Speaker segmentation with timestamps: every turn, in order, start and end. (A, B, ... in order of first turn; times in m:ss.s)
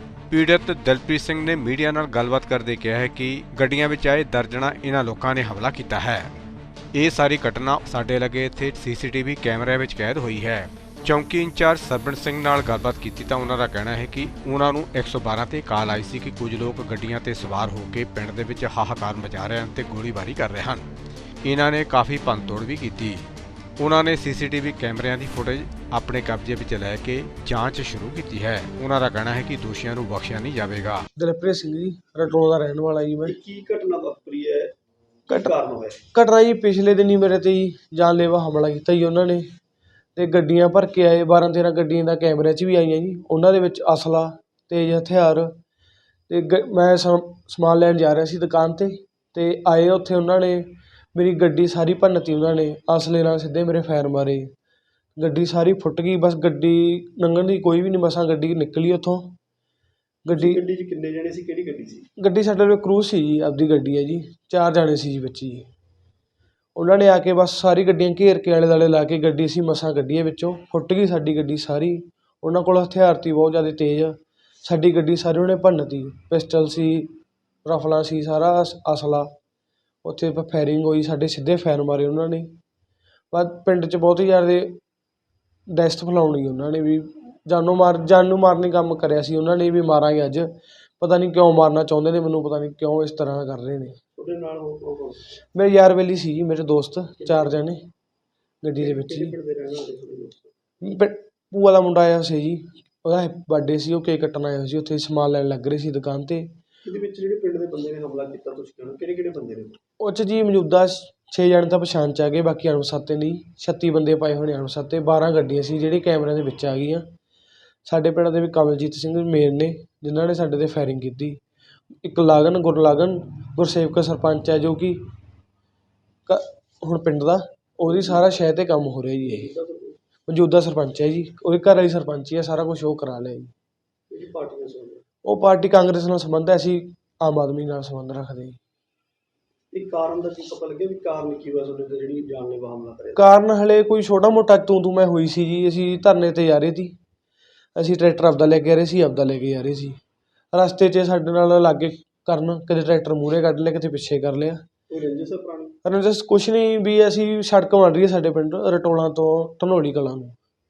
0:00.3-0:06.3 A
0:06.9-0:20.8 A
0:21.4-0:23.3 A
0:23.8-0:31.0 A
0:31.2-0:33.3 B
0:33.2-0:34.7 C
0:35.3-0:36.0 C
0:36.1-0:39.5 B
0:40.2-0:45.6 B
0:46.3-0:54.5 B
0:55.2-0:59.4 B
1:00.2-1:00.6 B
1:00.3-1:02.1 C
1:02.2-1:05.7 B
1:06.7-1:19.3 B
1:20.0-1:22.5 B
1:23.3-1:24.8 B
1:25.7-1:34.0 B
1:34.2-1:35.2 C
1:35.5-1:37.8 B
1:37.2-1:37.5 C
1:38.6-1:39.3 B
1:38.8-1:40.5 C
1:40.8-1:46.5 B
1:46.8-1:49.8 C
1:50.0-1:57.1 B
1:57.8-2:01.4 B
2:02.0-2:05.0 B
2:06.3-2:09.5 B
2:07.8-2:08.2 C
2:09.3-2:10.0 C
2:10.3-2:13.5 B
2:14.1-2:15.0 C
2:15.2-2:18.6 B
2:19.7-2:23.3 C
2:23.2-2:26.9 B
2:27.7-2:30.0 B
2:30.5-2:34.6 B
2:34.9-2:35.7 C
2:35.8-2:40.4 B